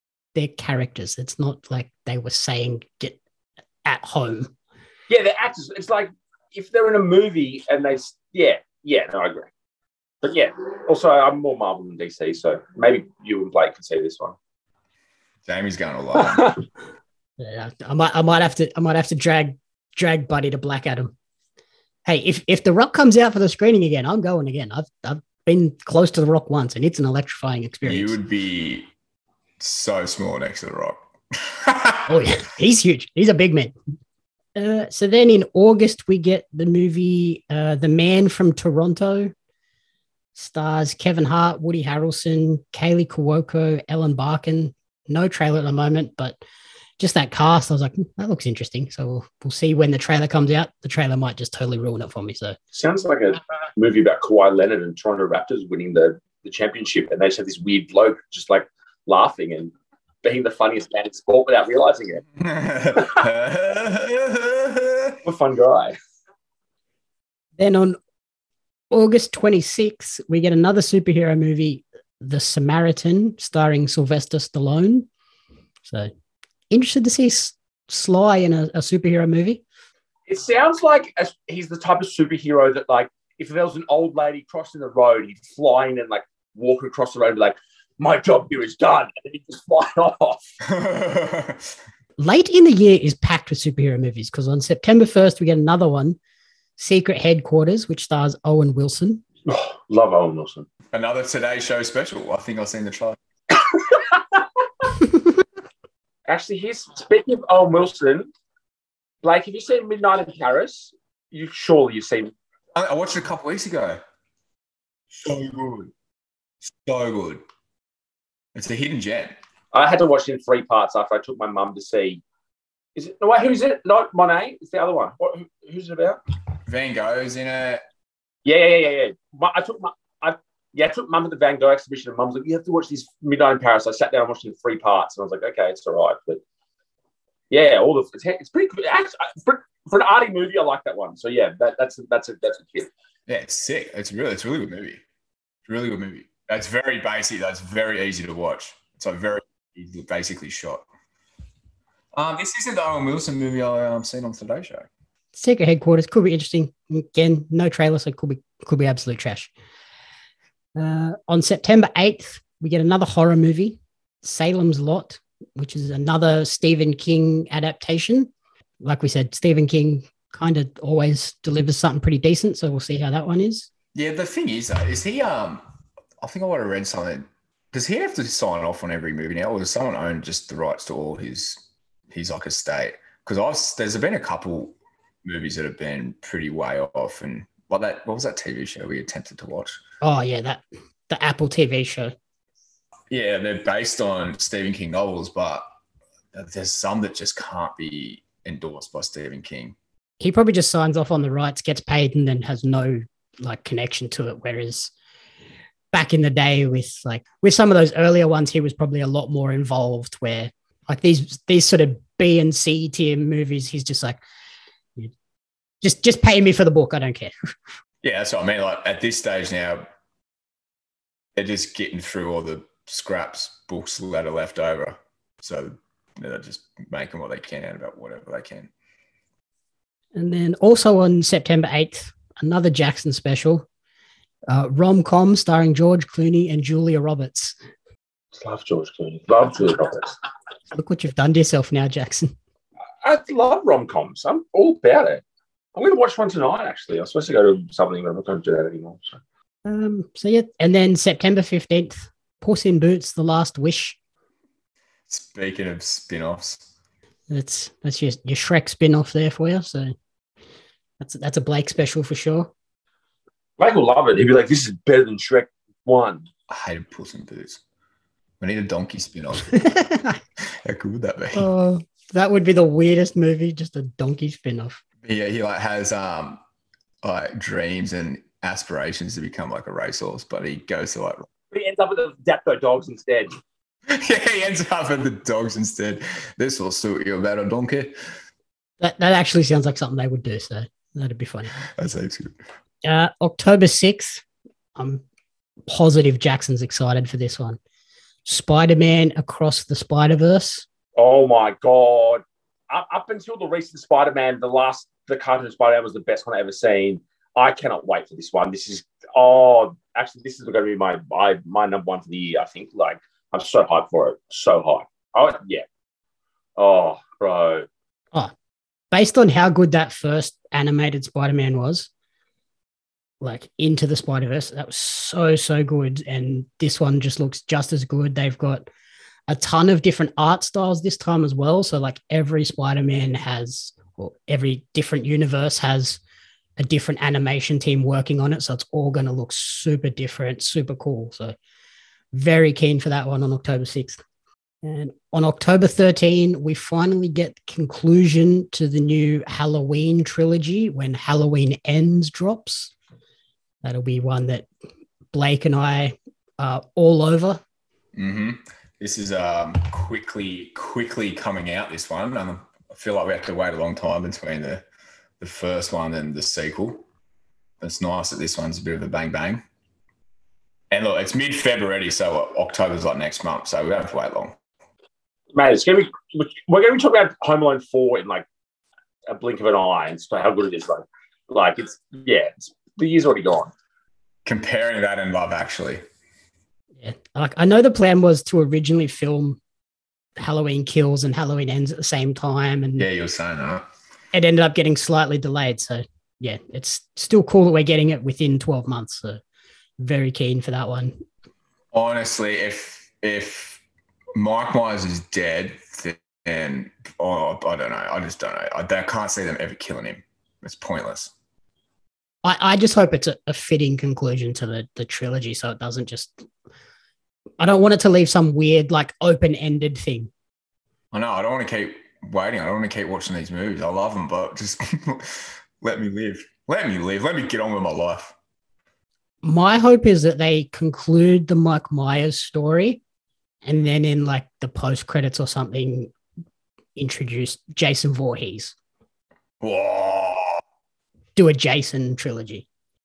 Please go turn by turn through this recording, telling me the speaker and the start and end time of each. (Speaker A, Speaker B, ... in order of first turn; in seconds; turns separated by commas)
Speaker A: 0.3-3.2, Speaker A: 3.9-4.5, Speaker B: 5.1-9.5, Speaker B: 10.2-14.4, Speaker C: 15.5-16.6, Speaker B: 16.2-16.6, Speaker A: 17.4-21.1, Speaker A: 22.1-28.2, Speaker C: 27.9-28.9, Speaker C: 29.6-32.1, Speaker A: 32.1-33.8, Speaker A: 34.6-39.3, Speaker A: 40.4-46.4, Speaker A: 47.0-52.6, Speaker B: 52.7-59.7, Speaker B: 60.2-62.2, Speaker C: 62.4-65.2, Speaker B: 65.2-66.0, Speaker A: 67.6-68.0, Speaker A: 68.9-75.1, Speaker A: 76.7-79.6, Speaker B: 80.3-90.4, Speaker C: 90.6-91.7, Speaker A: 92.2-96.2, Speaker A: 96.8-99.2, Speaker B: 99.5-100.7, Speaker C: 100.9-103.2, Speaker B: 103.7-104.4, Speaker B: 106.3-108.3, Speaker B: 109.2-112.3, Speaker C: 112.7-114.0, Speaker C: 115.1-115.9, Speaker C: 116.7-117.4, Speaker C: 118.5-119.3, Speaker B: 119.7-122.2, Speaker B: 123.0-126.2, Speaker C: 126.7-127.8, Speaker B: 128.4-136.4, Speaker B: 137.5-142.9, Speaker C: 143.3-145.0, Speaker C: 145.7-150.9, Speaker C: 152.2-154.9, Speaker A: 155.3-159.5, Speaker A: 160.8-173.7, Speaker C: 173.9-175.6, Speaker C: 176.2-189.8, Speaker A: 190.0-192.1, Speaker C: 193.1-195.6, Speaker C: 196.3-199.8, Speaker A: 200.2-204.9, Speaker A: 205.9-214.2, Speaker A: 215.8-217.3, Speaker C: 218.0-219.9, Speaker C: 221.3-228.7, Speaker A: 230.2-233.7, Speaker A: 234.5-237.6, Speaker B: 238.3-240.1, Speaker A: 240.7-242.3, Speaker B: 243.0-245.2, Speaker B: 245.8-249.2, Speaker A: 249.7-254.0, Speaker C: 255.1-256.7, Speaker A: 257.3-259.9, Speaker A: 261.0-262.5, Speaker B: 263.6-266.3, Speaker C: 266.5-267.6, Speaker C: 268.4-269.8, Speaker A: 269.6-270.2, Speaker C: 270.6-271.5, Speaker A: 271.3-274.8, Speaker C: 275.0-276.4, Speaker C: 277.0-281.3, Speaker B: 281.5-283.4, Speaker C: 283.9-288.0, Speaker A: 288.8-291.6, Speaker C: 291.6-292.4, Speaker A: 292.9-294.2, Speaker A: 294.8-295.0, Speaker A: 295.7-297.6, Speaker A: 298.3-300.7, Speaker B: 301.0-315.6, Speaker B: 316.6-317.7, Speaker A: 318.9-321.9, Speaker A: 323.2-328.7, Speaker A: 329.3-336.0, Speaker A: 336.6-341.4, Speaker A: 342.1-344.0, Speaker A: 344.6-352.7, Speaker A: 353.6-354.5, Speaker A: 355.1-357.4, Speaker C: 357.9-364.6, Speaker C: 365.2-366.8, Speaker C: 367.6-369.4, Speaker C: 370.7-374.4, Speaker B: 375.3-378.2, Speaker B: 379.1-383.5, Speaker C: 384.2-385.8, Speaker A: 386.8-389.4, Speaker A: 390.2-392.9, Speaker C: 392.8-393.7, Speaker A: 394.1-399.2, Speaker A: 399.8-401.0, Speaker C: 401.7-403.6, Speaker C: 404.2-411.1, Speaker A: 412.2-416.3, Speaker A: 417.4-420.1, Speaker C: 420.9-428.1, Speaker A: 429.2-432.8, Speaker A: 433.4-435.9, Speaker A: 436.8-438.6, Speaker C: 439.4-440.4, Speaker A: 441.2-442.5